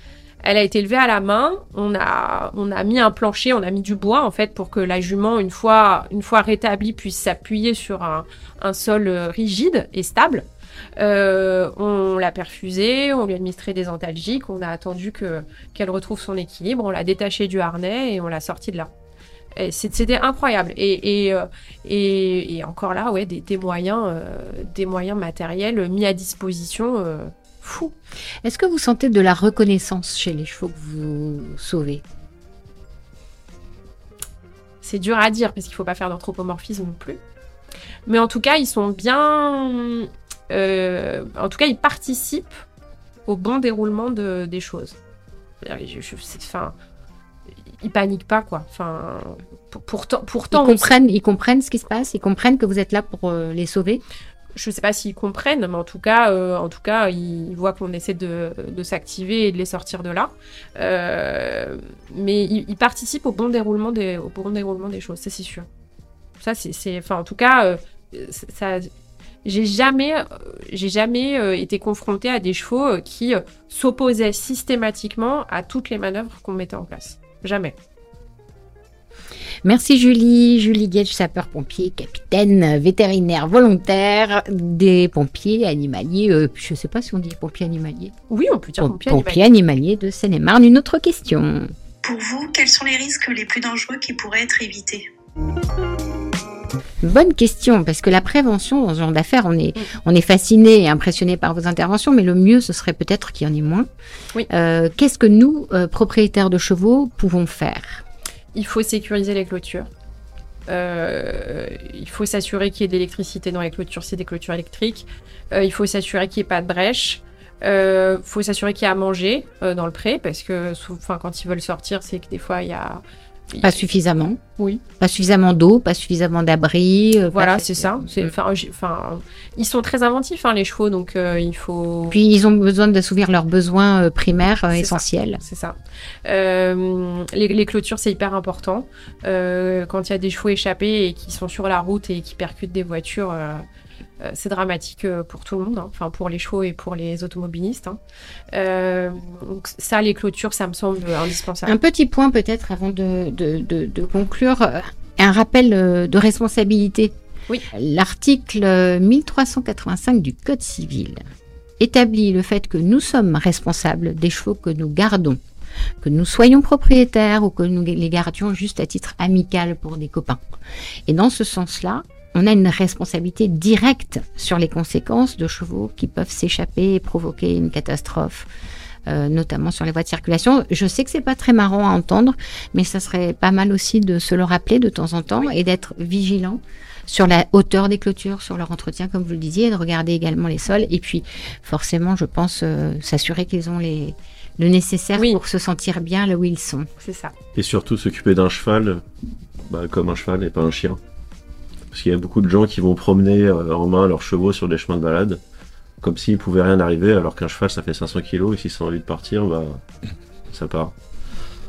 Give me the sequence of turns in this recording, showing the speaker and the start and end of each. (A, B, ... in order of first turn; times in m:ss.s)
0:00.4-0:18.9 A
0:19.6-0:27.9 A
0:28.4-0:32.0 B
0:34.8-0:37.2 A
0:38.1-0:42.6 A
0:43.3-0:45.0 A
0:45.6-0:46.7 A
0:47.8-0:50.9 A
0:50.5-0:54.0 B
0:54.5-1:05.7 A
1:06.4-1:08.9 A
1:09.4-1:17.8 A
1:19.6-1:28.1 B
1:28.3-1:29.4 A
1:28.8-1:31.7 B
1:32.0-1:35.0 C
1:37.0-1:43.9 B
1:44.5-1:48.0 B
1:48.5-1:49.9 A
1:50.7-2:03.9 A
2:03.6-2:04.4 B
2:05.0-2:08.3 B
2:07.3-2:12.2 A
2:12.1-2:15.4 B
2:14.7-2:23.6 A
2:24.2-2:28.0 A
2:28.5-2:31.7 A
2:31.6-2:37.1 B
2:37.7-2:41.2 B
2:41.8-2:45.4 B
2:46.0-2:50.4 B
2:51.1-2:58.5 B
2:59.1-3:16.9 B
3:15.2-3:15.4 A
3:17.0-3:17.3 A
3:17.5-3:19.0 D
3:19.6-3:21.0 D
3:21.9-3:25.4 D
3:26.0-3:29.8 D
3:30.5-3:30.9 D